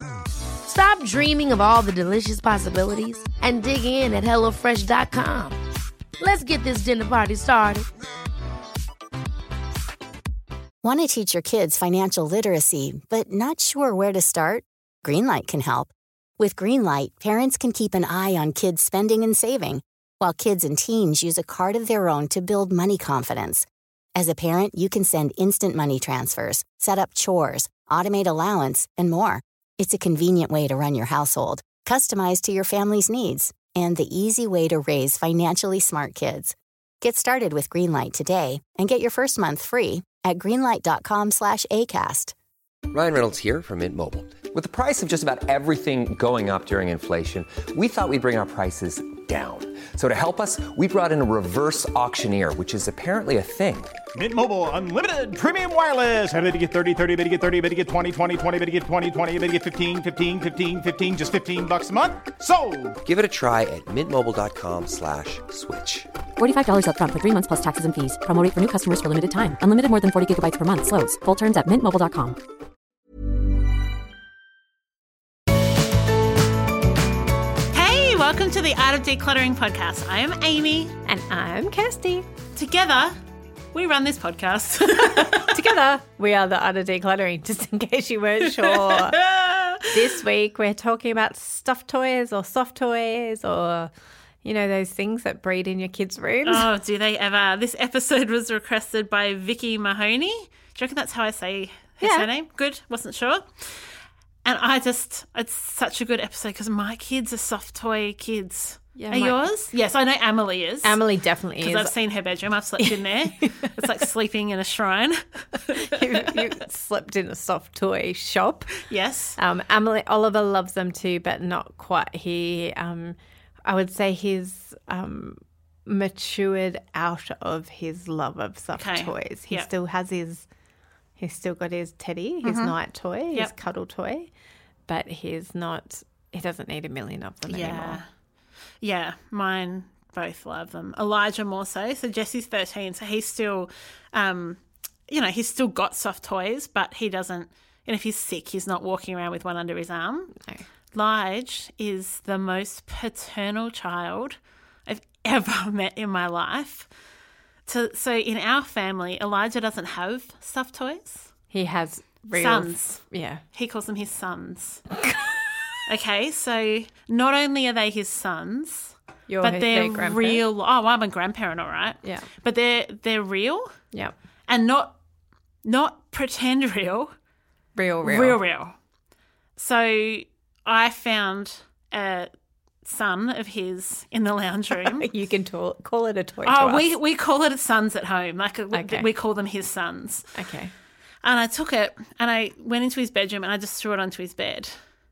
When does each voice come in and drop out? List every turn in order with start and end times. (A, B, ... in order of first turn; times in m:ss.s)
0:00.6-0:05.6 A
0:06.2-0:07.9 A
0:10.8-0:42.3 B
0:42.9-0:53.9 C
0:54.1-1:03.0 D
1:03.0-1:06.1 C
1:06.4-1:12.4 E
1:17.7-1:21.0 F
1:21.0-1:22.3 G
1:22.5-1:23.2 F
1:23.7-1:25.6 F
1:24.9-1:29.2 G
1:28.6-1:30.0 F
1:29.9-1:33.9 G
1:34.4-1:36.7 G
1:36.4-1:51.0 F
1:42.0-1:42.3 G
1:49.0-1:49.4 G
1:50.8-1:52.0 G
1:51.6-1:56.4 F
1:52.8-1:53.8 G
1:55.9-1:58.8 G
1:58.8-1:59.4 F
1:59.4-2:10.5 G
2:08.8-2:09.7 F
2:11.2-2:14.3 G
2:12.4-2:12.7 F
2:14.9-2:18.0 G
2:17.5-2:18.1 F
2:18.8-2:30.4 F
2:30.9-2:36.9 F
2:37.7-2:41.3 F
2:41.5-2:43.4 G
2:42.3-2:44.8 F
2:45.8-2:53.8 F
2:49.3-2:50.4 G
2:54.5-2:55.0 F
2:55.6-2:57.1 F
2:57.8-2:58.4 G
2:58.0-2:58.8 F
2:59.6-3:02.3 F
3:02.8-3:05.1 F
3:04.7-3:06.8 G
3:06.4-3:10.3 F
3:08.7-3:09.1 G
3:10.3-3:10.7 G
3:11.2-3:14.8 F